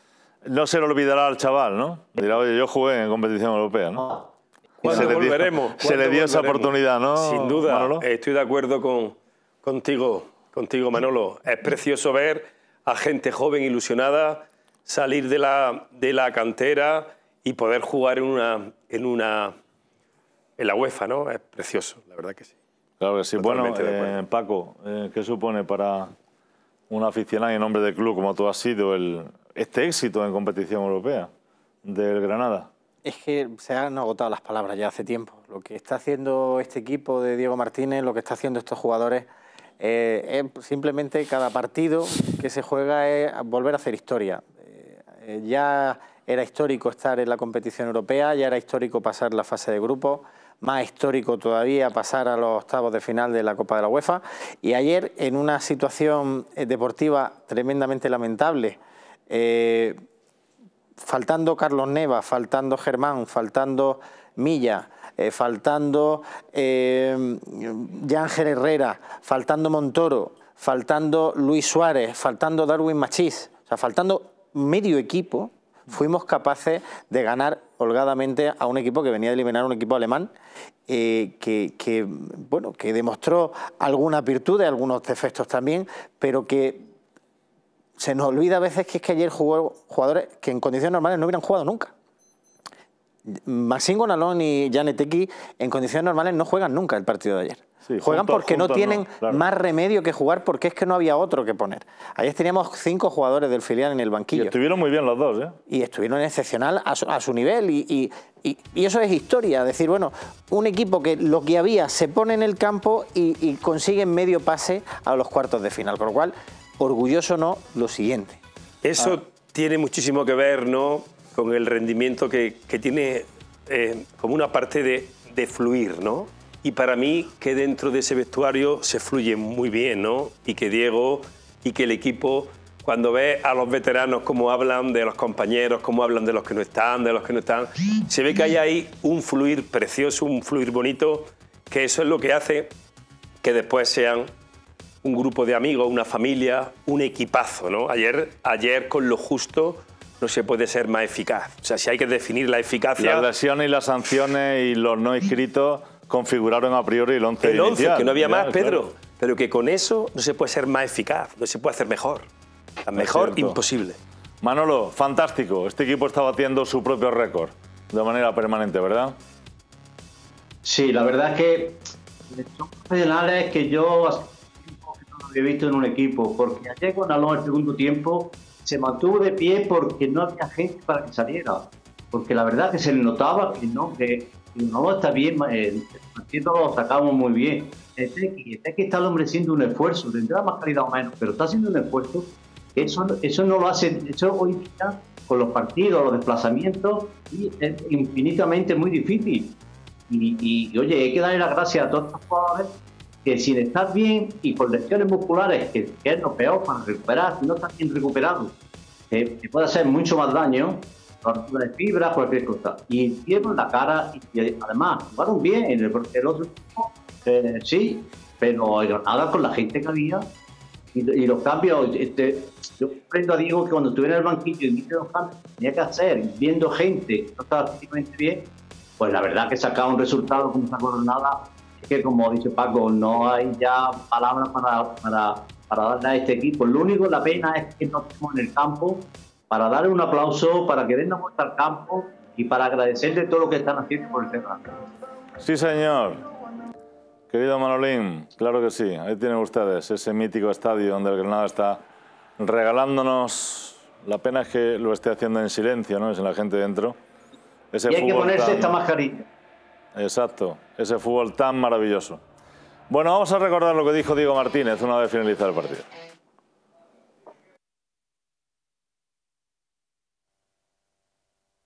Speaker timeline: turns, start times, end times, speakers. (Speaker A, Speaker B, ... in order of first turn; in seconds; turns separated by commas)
Speaker A: 0.5-4.0, Speaker B: 4.8-19.6, Speaker A: 4.8-8.1, Speaker B: 20.6-22.5, Speaker A: 23.0-26.1, Speaker B: 23.4-24.2, Speaker A: 26.9-31.3, Speaker A: 31.9-32.7, Speaker C: 33.0-39.3, Speaker C: 39.8-58.8, Speaker C: 59.3-60.0, Speaker C: 61.0-80.3, Speaker C: 80.9-86.8, Speaker C: 88.0-91.9, Speaker C: 93.3-104.5, Speaker A: 97.9-99.4, Speaker A: 104.3-105.6, Speaker C: 105.7-118.4, Speaker B: 118.8-142.7, Speaker B: 143.4-144.3, Speaker B: 145.0-153.3, Speaker A: 153.0-158.9, Speaker B: 157.4-162.3, Speaker B: 162.8-164.0, Speaker A: 163.0-163.6, Speaker A: 164.4-169.2, Speaker D: 170.7-199.5, Speaker D: 200.1-202.7, Speaker D: 203.2-208.5, Speaker D: 209.1-220.2, Speaker D: 220.9-228.4, Speaker D: 229.0-244.7, Speaker A: 245.4-246.2, Speaker A: 247.3-251.8, Speaker A: 252.4-257.0, Speaker A: 257.7-258.8, Speaker D: 257.9-259.3, Speaker A: 259.9-262.2, Speaker A: 262.9-265.9